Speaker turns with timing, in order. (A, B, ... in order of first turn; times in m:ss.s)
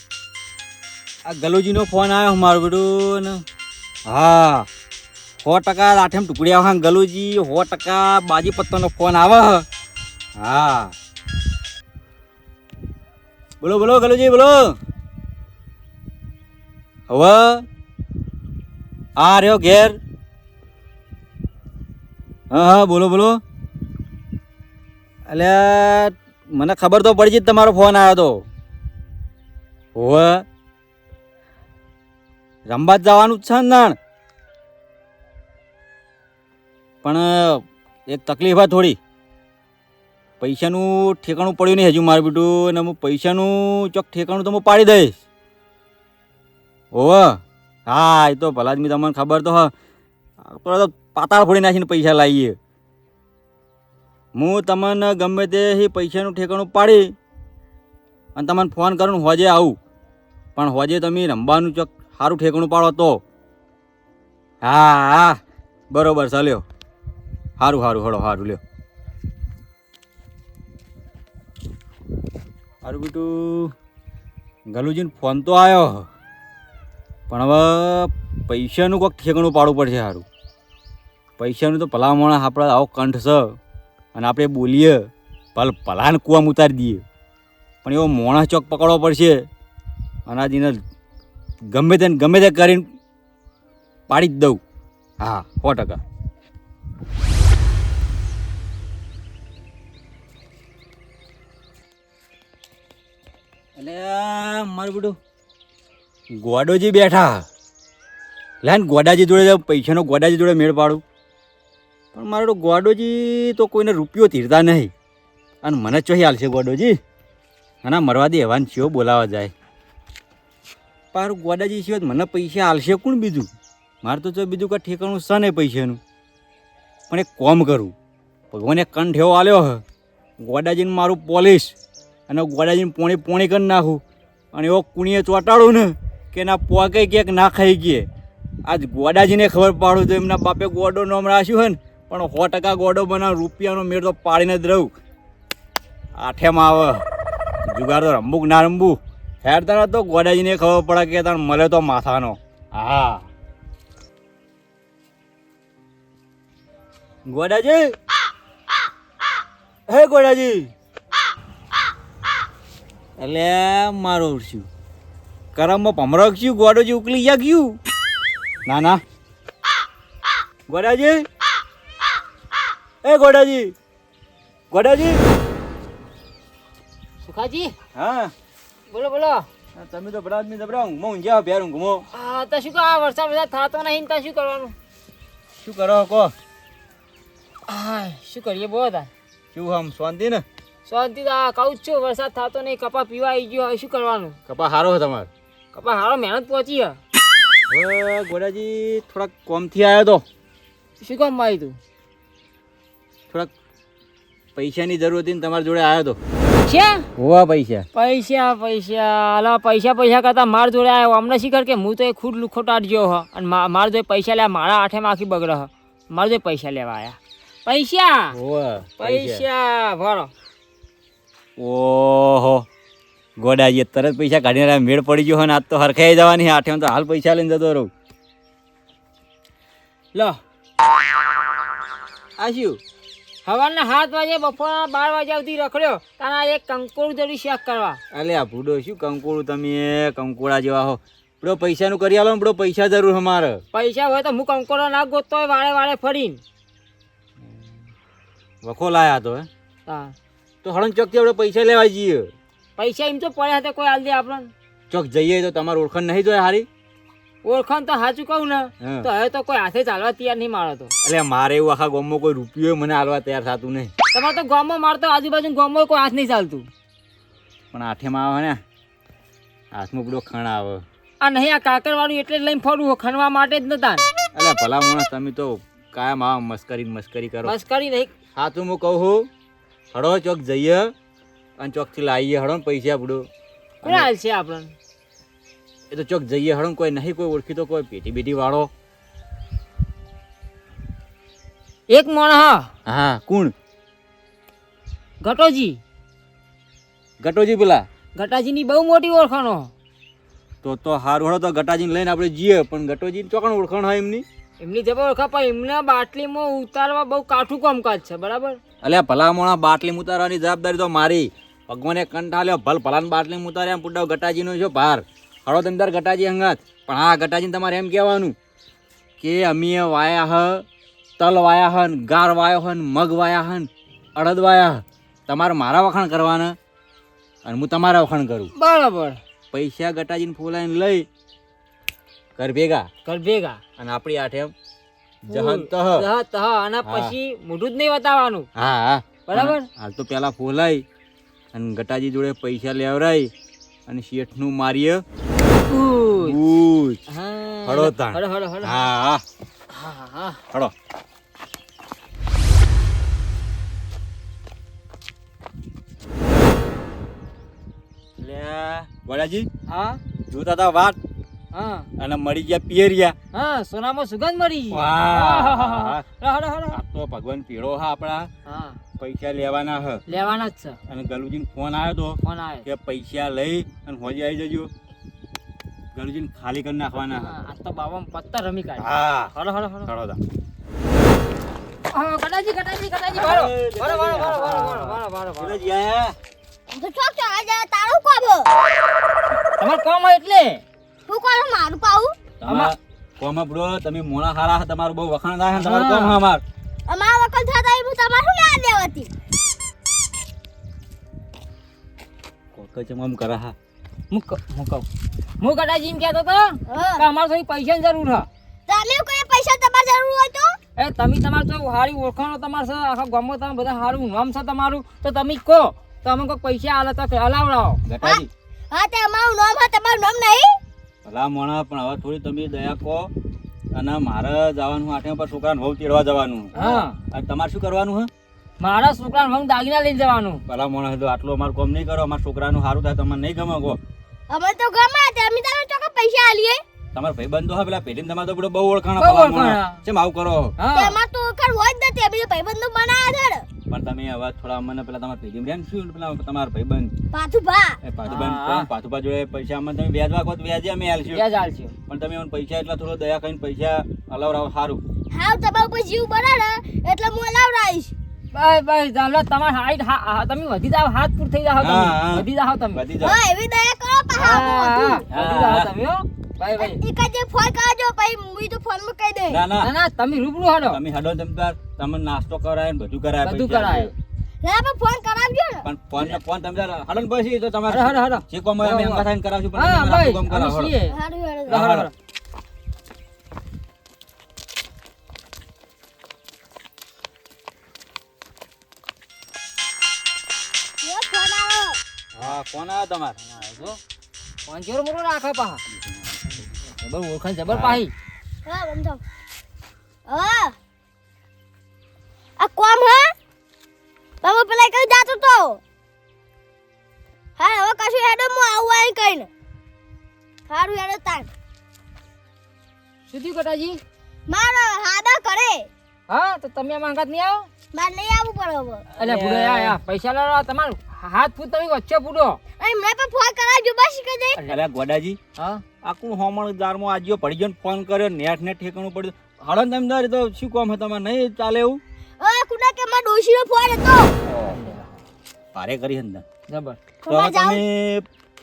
0:01.2-0:03.4 A
0:04.1-0:04.7 A
0:05.4-0:09.6 A
0:10.4-0:10.9 A
0:13.6-0:14.8 A
0:17.1-0:17.6 A
0:19.2-0:20.0 A
0:22.5-0:23.4 A
0:25.3-0:28.5 A
0:30.0-0:30.4 A
0:32.7-0:34.0 A
0:37.0-0:39.0 A
0:40.4-0:45.1 A
0:46.9-0:49.7 A
0:50.4-0:52.6 A
0:54.4-0:57.1 A
0:58.4-0:59.8 A
1:00.6-1:03.2 A
1:04.6-1:05.4 A
1:05.9-1:06.6 A
1:07.6-1:08.6 A
1:12.8-1:13.7 A
1:14.7-1:16.1 A
1:17.3-1:20.2 A
1:21.4-1:23.6 A
1:24.2-1:25.0 A
1:25.6-1:27.0 A
1:27.8-1:29.4 A
1:30.3-1:30.8 A
1:31.7-1:32.8 A
1:34.1-1:34.6 A
1:35.2-1:36.0 A
1:43.8-1:45.2 A
1:46.3-1:47.4 A
1:48.6-1:51.0 A
1:52.2-1:54.9 A
1:55.6-1:57.0 A
1:57.8-1:59.5 A
2:01.1-2:03.5 A
2:04.0-2:06.0 A
2:07.1-2:07.9 A
2:08.5-2:09.8 A
2:10.4-2:11.8 A
2:12.3-2:14.0 A
2:14.5-2:18.1 A
2:18.7-2:24.9 A
2:26.2-2:27.0 A
2:27.7-2:33.3 A
2:37.3-2:38.0 A
2:39.9-2:40.7 A
2:43.2-2:44.7 A
2:45.5-2:47.8 A
2:48.7-2:49.0 A
2:50.7-2:51.3 A
2:53.0-2:53.7 A
2:54.7-2:55.2 A
2:57.2-2:57.7 B
2:58.0-2:58.3 A
2:58.9-2:59.5 B
2:59.8-3:02.1 A
3:02.1-3:04.8 B
3:05.6-3:06.3 A
3:07.7-3:09.1 B
3:09.5-3:10.4 A
3:10.9-3:14.4 B
3:14.5-3:15.3 A
3:15.7-3:17.0 B
3:17.7-3:20.2 A
3:21.0-3:21.8 B
3:24.6-3:26.2 A
3:26.6-3:27.1 B
3:27.2-3:27.9 A
3:28.0-3:38.4 B
3:38.3-3:39.4 A
3:39.0-3:40.3 B
3:41.6-3:42.7 A
3:43.4-3:47.9 A
3:50.1-3:50.4 B
3:52.4-3:52.8 A
3:53.4-3:58.0 B
3:58.1-4:03.6 A
4:03.7-4:06.4 B
4:07.4-4:07.8 A
4:08.6-4:09.5 A
4:09.9-4:10.2 B
4:10.6-4:12.3 A
4:12.8-4:14.5 B
4:14.9-4:16.7 A
4:17.4-4:20.9 B
4:18.8-4:19.1 A
4:21.0-4:23.9 A
4:24.1-4:26.7 B
4:27.7-4:28.6 A
4:29.7-4:30.8 A
4:31.2-4:34.1 B
4:34.3-4:37.6 A
4:37.4-4:38.1 B
4:38.4-4:39.3 A
4:39.9-4:40.9 A
4:41.6-4:43.3 A
4:43.8-4:44.1 A
4:43.8-4:44.7 B
4:45.9-4:48.7 A
4:51.9-4:52.7 B
4:52.9-4:53.5 A
4:55.2-4:55.8 B
4:57.2-4:57.8 A
4:58.2-4:59.7 B
5:00.6-5:04.2 A
5:04.6-5:08.6 B
5:08.8-5:18.4 A
5:19.2-5:20.6 A
5:21.2-5:26.6 A
5:27.4-5:28.5 A
5:28.6-5:29.2 B
5:29.5-5:31.1 A
5:32.4-5:32.9 A
5:33.0-5:33.6 B
5:33.8-5:34.5 A
5:35.2-5:36.1 A
5:35.3-5:38.5 B
5:36.8-5:37.2 A
5:38.6-5:40.8 A
5:39.3-5:39.7 B
5:41.5-5:43.3 A
5:43.9-5:45.0 A
5:45.7-5:46.4 B
5:46.2-5:47.0 A
5:47.1-5:48.9 B
5:47.6-5:49.2 A
5:49.7-5:50.4 B
5:58.2-5:59.5 A
5:59.7-6:00.0 B
6:00.3-6:01.0 A
6:01.5-6:01.9 B
6:02.0-6:03.2 A
6:03.3-6:06.8 B
6:04.7-6:06.0 A
6:06.7-6:08.3 A
6:08.4-6:08.8 B
6:09.0-6:10.0 A
6:10.1-6:10.8 B
6:10.9-6:14.7 A
6:12.2-6:12.7 B
6:15.9-6:17.3 A
6:17.0-6:19.9 B
6:18.8-6:19.3 A
6:19.9-6:20.2 A
6:21.9-6:25.6 B
6:23.1-6:26.2 A
6:26.7-6:28.5 C
6:29.6-6:30.6 B
6:31.1-6:32.2 C
6:32.4-6:36.4 A
6:32.4-6:32.7 B
6:35.6-6:36.2 B
6:36.9-6:39.1 C
6:42.6-6:43.6 A
6:44.1-6:44.9 B
6:45.4-6:48.3 B
6:46.7-6:47.0 C
6:48.7-6:50.6 C
6:50.8-6:57.8 B
6:57.8-6:58.3 A
6:58.0-7:00.6 C
7:01.0-7:03.1 A
7:03.7-7:06.6 A
7:06.5-7:07.0 B
7:06.6-7:06.8 C
7:07.1-7:08.1 A
7:08.6-7:10.4 B
7:10.5-7:13.8 A
7:14.3-7:16.6 C
7:16.9-7:20.6 A
7:19.0-7:19.8 B
7:20.6-7:21.0 B
7:20.8-7:23.5 C
7:23.7-7:26.9 A
7:27.1-7:27.8 C
7:27.8-7:31.2 A
7:28.1-7:28.7 B
7:31.1-7:31.7 B
7:31.9-7:34.8 A
7:35.1-7:37.9 C
7:38.3-7:42.8 B
7:41.6-7:43.2 A
7:43.0-7:45.1 C
7:44.1-7:46.8 B
7:45.1-7:45.7 A
7:46.6-7:49.4 C
7:49.3-7:49.7 A
7:49.6-7:50.8 B
7:50.6-7:54.0 A
7:53.2-7:53.9 B
7:54.4-7:55.7 C
7:55.6-8:00.8 A
7:57.7-8:01.9 B
8:00.9-8:01.7 C
8:01.5-8:01.9 A
8:10.8-8:11.8 C
8:12.2-8:13.2 A
8:13.3-8:13.8 B
8:14.5-8:15.6 B
8:16.8-8:17.9 B
8:17.5-8:17.8 A
8:18.5-8:19.0 C
8:20.1-8:20.6 C
8:22.4-8:23.1 C
8:24.2-8:25.6 C
8:27.4-8:29.3 C
8:30.5-8:31.3 C
8:33.1-8:33.8 B
8:34.3-8:35.7 C
8:36.1-8:37.5 B
8:37.7-8:38.9 C
8:39.0-8:42.4 B
8:39.0-8:39.8 A
8:42.6-8:44.4 C
8:44.5-8:45.2 A
8:45.4-8:45.6 B
8:45.8-8:51.8 A
8:52.2-8:54.2 C
8:54.2-8:54.6 A
8:54.5-8:54.9 B
8:55.5-8:56.2 A
8:56.5-8:56.8 B
8:57.0-8:57.6 C
8:57.1-8:58.0 A